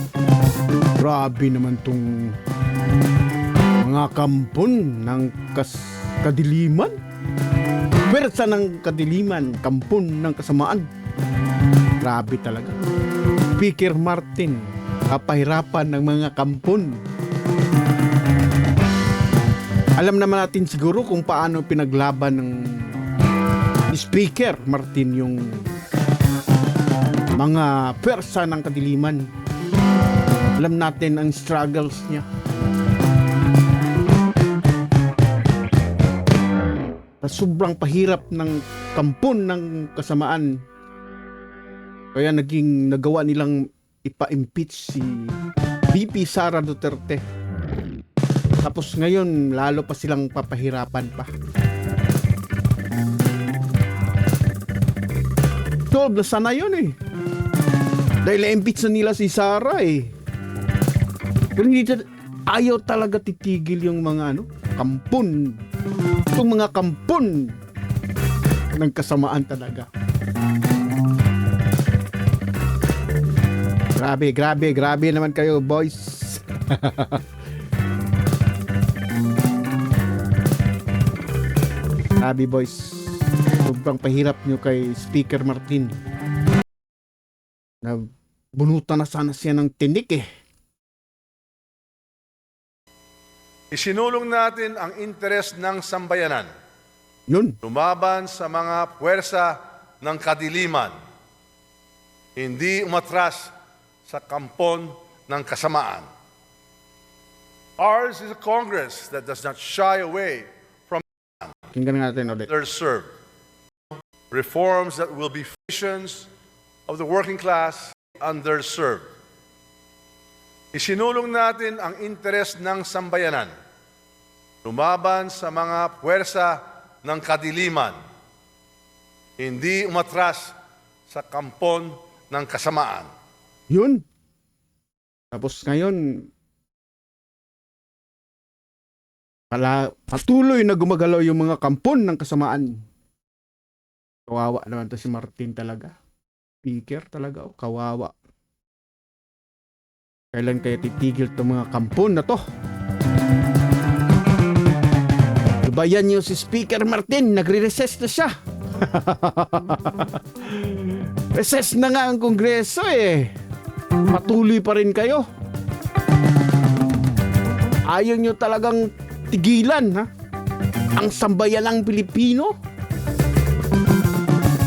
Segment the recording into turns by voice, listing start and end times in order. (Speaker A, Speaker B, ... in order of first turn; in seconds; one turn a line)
Speaker A: 1.0-2.4
Speaker A: 3.8-6.9
Speaker A: 8.1-10.9
Speaker A: 12.0-12.8
Speaker A: 13.6-17.0
Speaker A: 19.9-23.0
Speaker A: 23.9-25.8
Speaker A: 27.4-29.3
Speaker A: 30.6-32.2
Speaker A: 37.2-40.6
Speaker A: 42.1-45.4
Speaker A: 45.9-47.2
Speaker A: 48.6-51.3
Speaker A: 55.9-57.0
Speaker A: 58.2-60.1
Speaker A: 61.5-65.6
Speaker A: 66.3-67.6
Speaker A: 68.8-69.9
Speaker A: 74.0-77.2
Speaker A: 82.2-86.0
Speaker A: 87.8-90.2
Speaker B: 93.7-96.5
Speaker A: 97.3-97.6
Speaker B: 97.6-100.9
Speaker B: 102.3-103.5
Speaker B: 104.1-106.1
Speaker B: 107.8-111.0
Speaker A: 111.7-112.5
Speaker B: 112.5-113.1
Speaker B: 114.3-116.3
Speaker B: 116.9-119.1
Speaker B: 120.7-123.5
Speaker B: 124.6-128.0
Speaker B: 129.4-130.5
Speaker B: 131.1-133.1
Speaker A: 133.7-134.0
Speaker A: 135.3-136.3
Speaker A: 139.5-142.8
Speaker A: 144.3-145.9
Speaker A: 146.6-148.1
Speaker A: 150.3-152.4
Speaker A: 155.6-163.3
Speaker A: 164.1-165.3
Speaker A: 167.9-170.1
Speaker A: 170.9-172.5